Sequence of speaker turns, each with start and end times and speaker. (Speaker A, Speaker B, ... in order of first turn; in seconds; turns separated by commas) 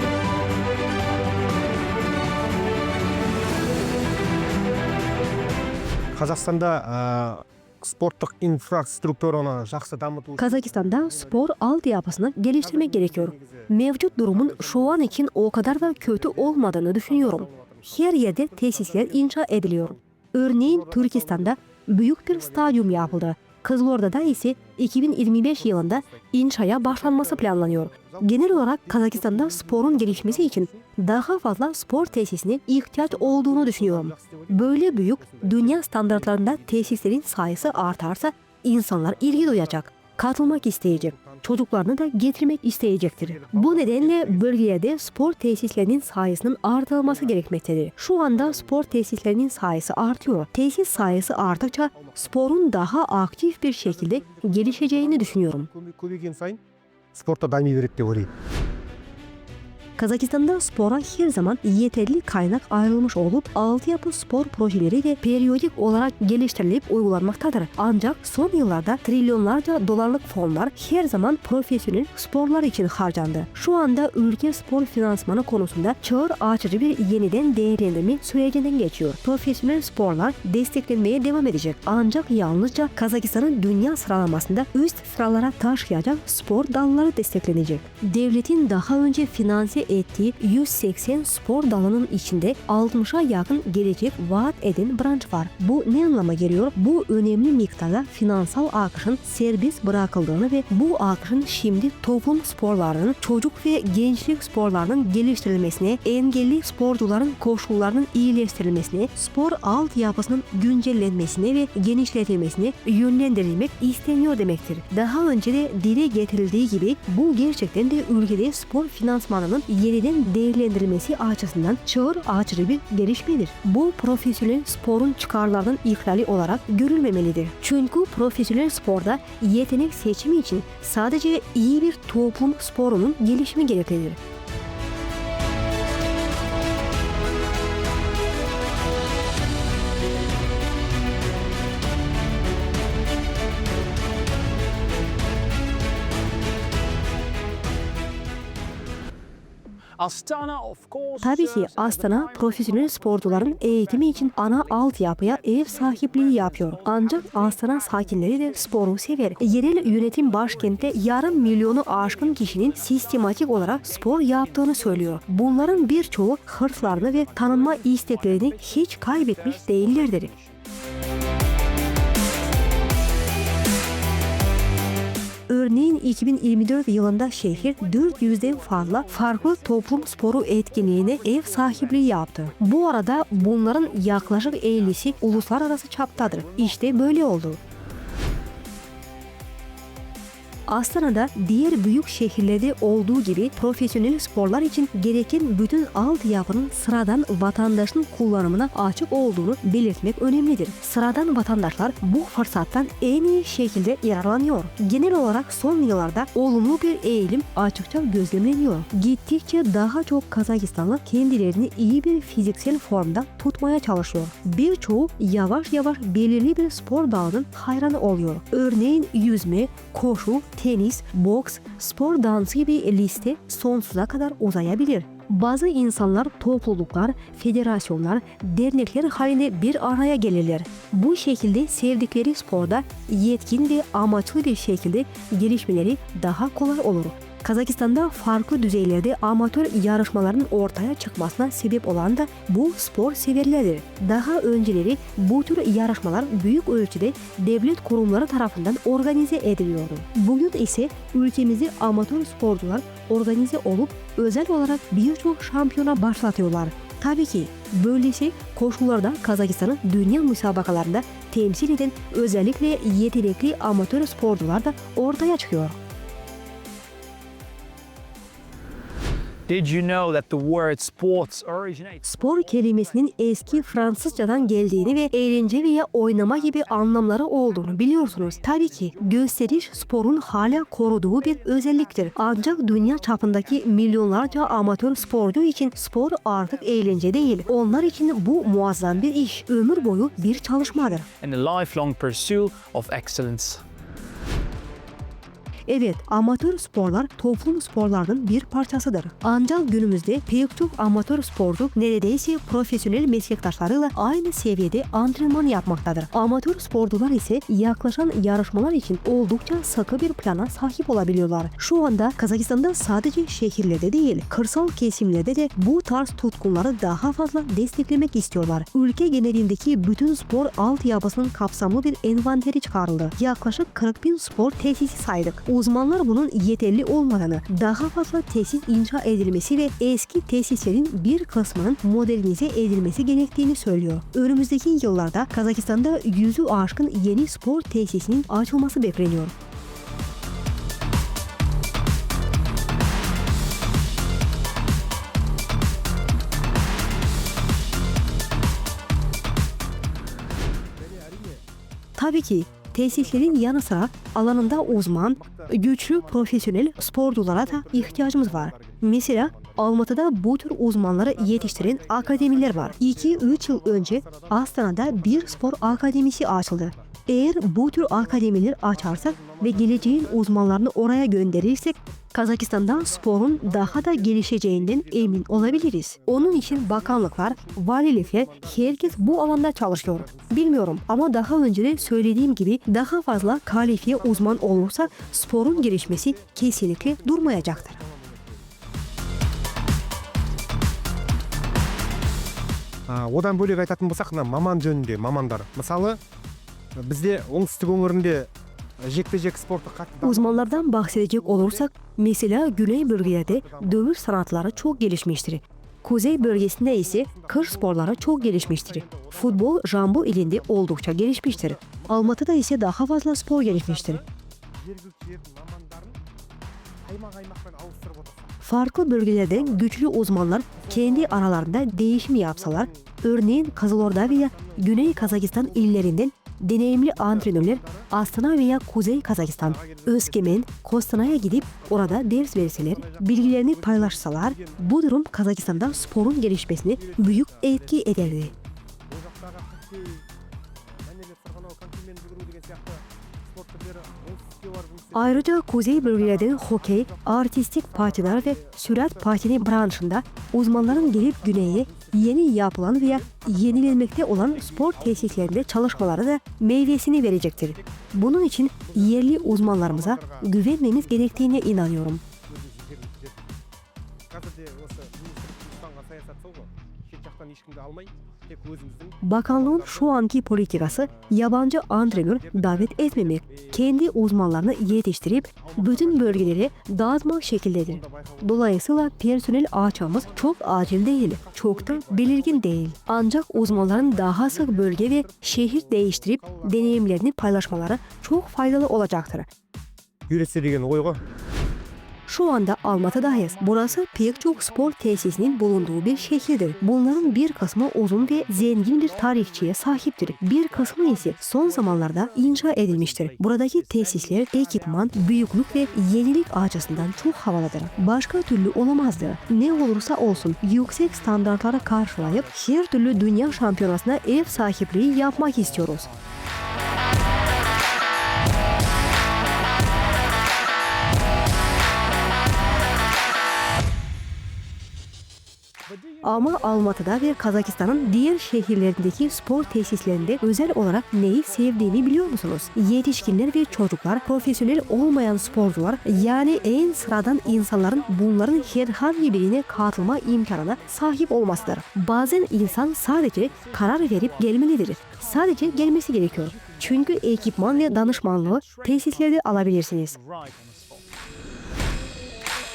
Speaker A: 6.2-11.1, Speaker B: 10.4-55.7, Speaker A: 12.7-13.7, Speaker A: 14.5-14.8, Speaker A: 16.0-18.0, Speaker A: 18.6-19.9, Speaker A: 22.6-23.0, Speaker A: 27.1-28.4, Speaker A: 29.0-30.8, Speaker A: 33.3-34.7, Speaker A: 35.2-36.6, Speaker A: 41.1-41.4, Speaker A: 43.4-44.4, Speaker A: 51.9-52.2, Speaker A: 54.0-56.6, Speaker A: 57.1-58.3, Speaker B: 60.0-134.2, Speaker C: 150.0-156.9, Speaker B: 151.2-170.3, Speaker B: 175.5-187.6, Speaker B: 190.7-265.8, Speaker C: 269.5-272.0, Speaker B: 272.0-291.1, Speaker C: 291.2-293.6, Speaker B: 295.7-339.3, Speaker A: 351.0-351.4, Speaker B: 352.0-387.8, Speaker A: 355.2-355.5, Speaker A: 357.6-358.8, Speaker A: 361.3-364.3, Speaker A: 365.1-365.6, Speaker A: 369.0-370.0, Speaker A: 375.0-375.4, Speaker A: 376.2-377.4, Speaker A: 378.6-379.2, Speaker A: 380.1-380.3, Speaker A: 387.1-388.3, Speaker A: 392.9-396.0, Speaker A: 396.8-398.3, Speaker A: 398.8-401.1, Speaker B: 400.0-414.0, Speaker A: 408.6-409.1, Speaker A: 414.7-416.0, Speaker A: 416.9-418.1, Speaker B: 418.4-438.3, Speaker A: 420.7-421.1, Speaker A: 424.3-424.7, Speaker A: 427.3-427.9, Speaker A: 429.6-429.9, Speaker A: 432.9-434.1, Speaker A: 438.9-440.0, Speaker A: 440.9-445.1, Speaker B: 444.9-462.0, Speaker A: 446.2-447.0, Speaker A: 448.1-448.7, Speaker A: 450.9-451.9, Speaker A: 454.6-455.5, Speaker A: 459.6-460.2, Speaker A: 462.4-463.0, Speaker A: 464.1-468.9, Speaker B: 469.0-489.3, Speaker A: 475.5-476.2, Speaker A: 481.8-482.2, Speaker A: 490.1-491.0, Speaker B: 492.1-515.9, Speaker B: 526.0-550.0, Speaker C: 546.5-549.1, Speaker C: 550.0-550.8